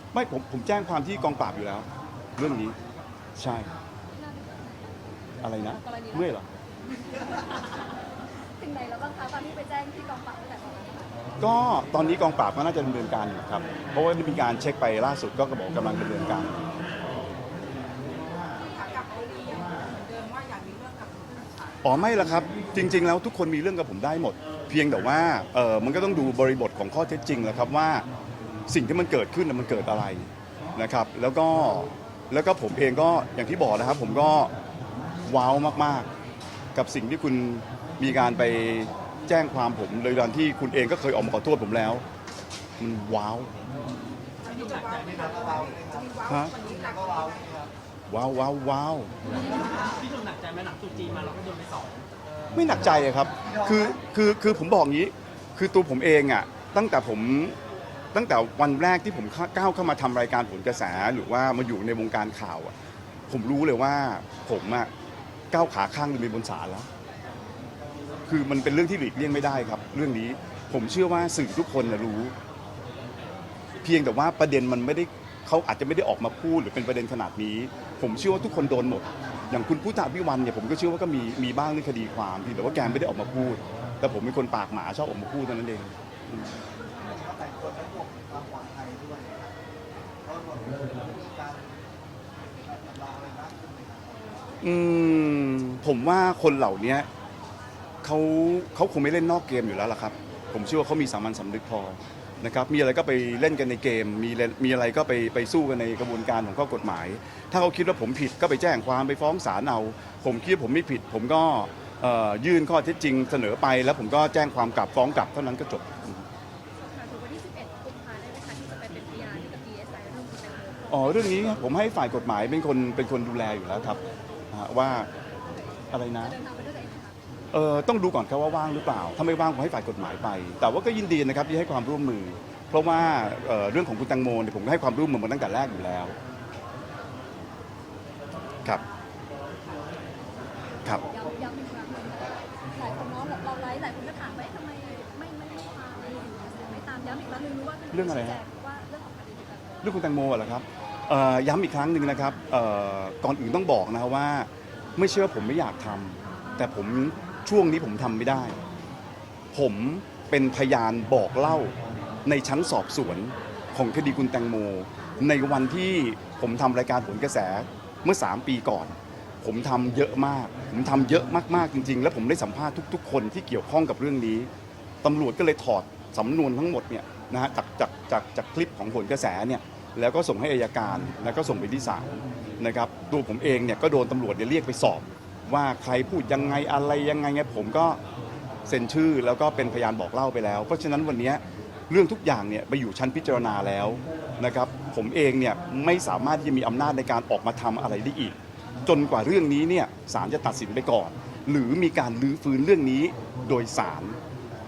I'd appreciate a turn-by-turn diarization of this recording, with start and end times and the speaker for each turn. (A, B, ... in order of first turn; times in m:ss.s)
0:00.1-0:02.8 A
0:02.4-0:03.7 B
0:03.4-0:03.7 A
0:04.1-0:06.5 C
0:05.4-0:06.5 A
0:07.1-0:07.7 C
0:08.6-0:11.2 C
0:11.4-0:16.6 A
0:17.7-0:22.5 D
0:21.8-0:28.1 A
0:28.7-0:34.5 A
0:35.2-0:36.1 A
0:36.7-0:42.0 A
0:42.8-0:43.5 A
0:44.4-0:47.5 D
0:44.4-0:45.8 B
0:44.8-0:47.7 E
0:46.2-0:46.5 A
0:48.1-0:49.1 A
0:49.3-0:52.1 B
0:52.5-0:57.6 A
0:53.4-0:53.8 E
0:58.1-1:02.7 A
1:03.3-1:04.9 A
1:05.5-1:06.9 A
1:08.3-1:12.3 A
1:13.8-1:26.5 A
1:26.9-1:29.5 E
1:30.2-1:31.8 E
1:32.4-1:34.5 E
1:34.6-1:37.1 A
1:38.0-1:56.2 A
1:56.8-2:01.3 C
2:00.9-2:04.0 A
2:04.5-2:05.1 A
2:05.9-2:06.4 A
2:06.2-2:07.2 C
2:07.5-2:16.2 A
2:19.4-2:20.9 D
2:20.9-2:30.0 C
2:27.9-2:28.4 A
2:29.8-2:38.6 A
2:39.5-2:41.7 A
2:42.2-2:54.5 A
2:55.0-3:08.0 A
3:08.6-3:24.2 A